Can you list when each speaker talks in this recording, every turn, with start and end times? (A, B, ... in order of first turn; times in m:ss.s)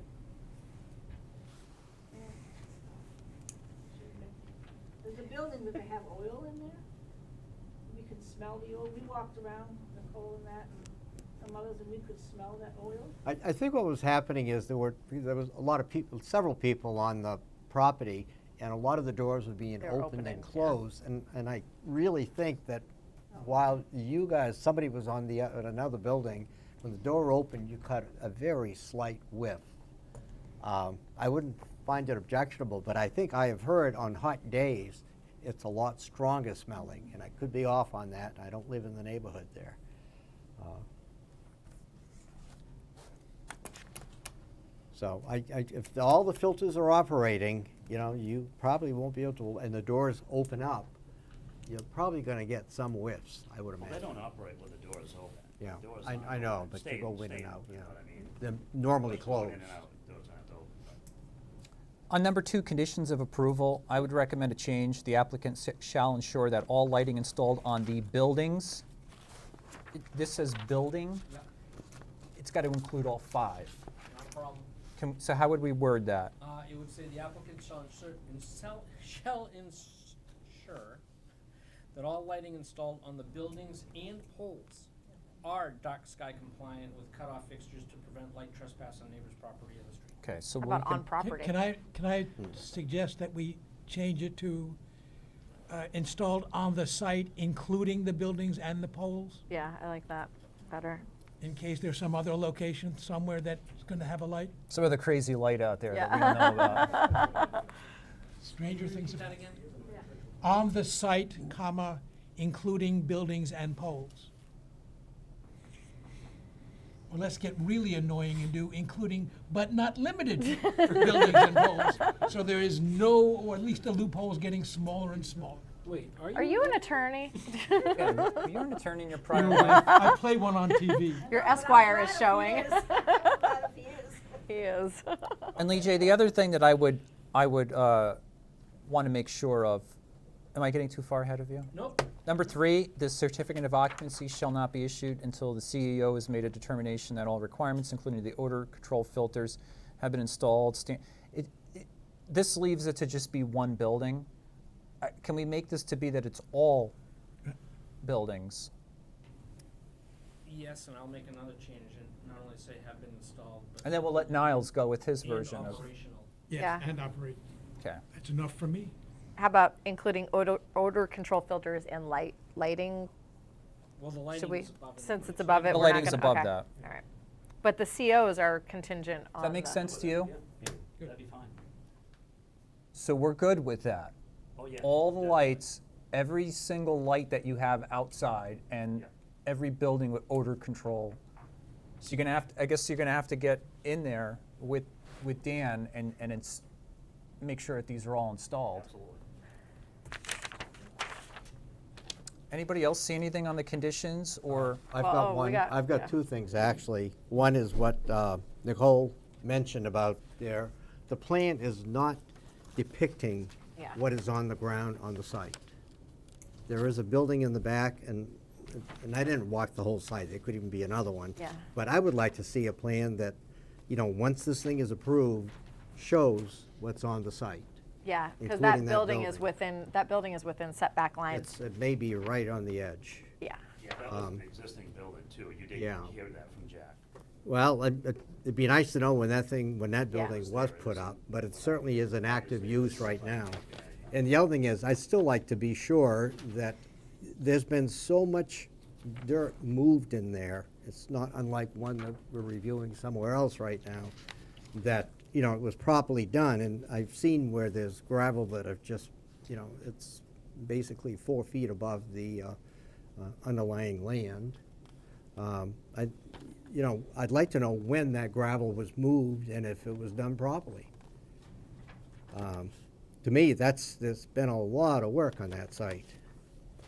0:02.1-0:03.0 A
0:03.9-0:04.4 A
0:05.0-0:06.8 A
0:07.9-0:10.7 A
0:11.4-0:13.1 A
0:13.2-0:29.7 B
0:19.8-0:20.8 C
0:30.6-0:39.8 B
0:40.6-0:40.8 B
0:44.9-0:50.9 B
0:51.7-0:54.3 B
0:53.8-0:58.4 D
0:55.6-0:59.7 B
0:59.0-1:01.0 D
1:02.1-1:08.8 E
1:09.9-1:11.2 E
1:12.4-1:13.8 E
1:14.0-1:14.7 F
1:15.0-1:16.3 E
1:16.4-1:21.0 F
1:21.9-1:24.9 F
1:25.4-1:30.2 F
1:30.2-1:31.1 E
1:30.6-1:31.6 C
1:31.2-1:34.8 G
1:35.7-1:39.4 G
1:39.5-1:41.0 C
1:41.4-1:44.5 G
1:44.7-1:47.3 E
1:45.9-1:47.4 C
1:48.4-1:49.3 G
1:48.7-1:50.0 F
1:50.4-1:54.3 G
1:57.1-2:05.7 G
2:05.8-2:06.9 F
2:06.3-2:08.5 C
2:07.9-2:10.0 E
2:09.3-2:11.3 G
2:09.8-2:10.2 C
2:10.9-2:13.6 C
2:11.3-2:14.4 A
2:14.5-2:15.5 C
2:15.6-2:18.2 E
2:18.8-2:20.0 E
2:20.5-2:34.3 E
2:21.7-2:22.1 F
2:35.0-2:36.9 E
2:38.0-2:38.7 E
2:40.4-2:44.7 F
2:43.8-2:45.8 E
2:45.2-2:46.3 F
2:46.5-2:47.4 G
2:46.6-2:46.8 C
2:48.1-2:48.9 G
2:49.4-2:53.1 C
2:54.0-2:56.3 F
2:54.3-2:57.0 C
2:55.7-2:56.7 E
2:57.6-2:59.8 C
2:59.4-3:00.3 E
2:59.8-3:01.6 D
3:02.9-3:04.1 E
3:04.6-3:05.7 D
3:04.8-3:11.2 E
3:12.0-3:16.6 E
3:17.4-3:18.9 E
3:18.7-3:19.2 D
3:22.5-3:24.8 E
3:24.6-3:35.6 B
3:24.9-3:26.1 C
3:36.7-3:43.4 B
3:43.9-3:47.8 B
3:48.0-3:51.5 C
3:48.4-3:49.5 B
3:51.3-3:53.3 B
3:53.8-3:57.0 D
3:54.1-3:54.4 B
3:55.7-3:56.1 B
3:57.4-4:14.1 B
4:00.2-4:04.2 D
4:14.7-4:22.6 B
4:23.2-4:24.6 B
4:25.4-4:30.9 B
4:32.3-4:36.2 B